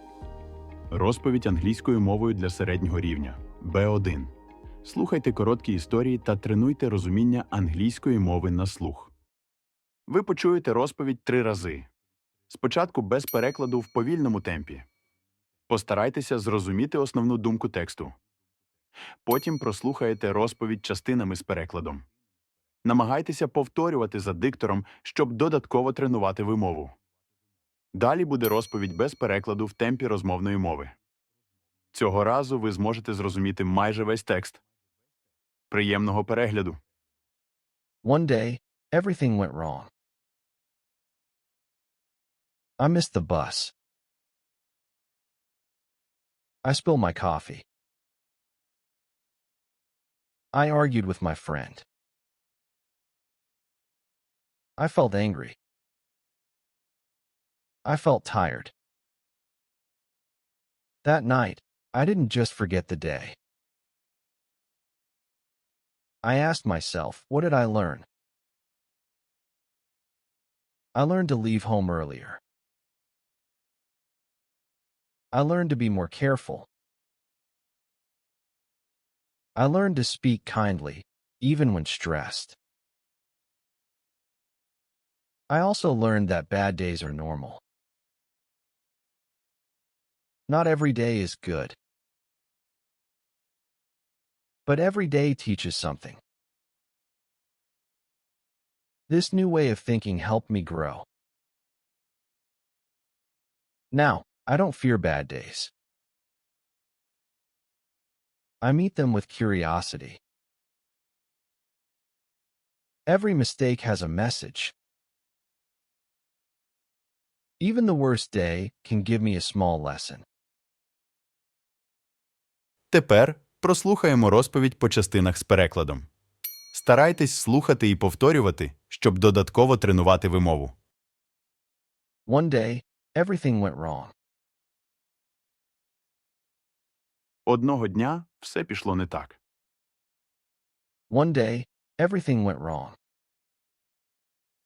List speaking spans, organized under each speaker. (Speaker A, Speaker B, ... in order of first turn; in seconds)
Speaker A: 0.9-9.1, 10.1-11.9, 12.5-14.9, 15.7-18.1, 19.2-22.1, 22.8-26.9, 27.9-30.9, 31.9-34.6, 35.7-36.8, 122.9-126.1, 126.7-130.7, 137.5-139.4
Speaker B: 38.0-39.9, 42.8-43.7, 46.6-47.6, 50.5-51.9, 54.8-55.6, 57.9-58.7, 61.0-63.4, 66.2-68.1, 71.0-72.4, 75.3-76.7, 79.6-82.6, 85.5-87.6, 90.5-91.8, 94.7-96.2, 99.1-101.1, 103.9-105.7, 108.6-110.2, 113.1-114.7, 117.6-120.2, 132.3-134.1, 141.1-143.0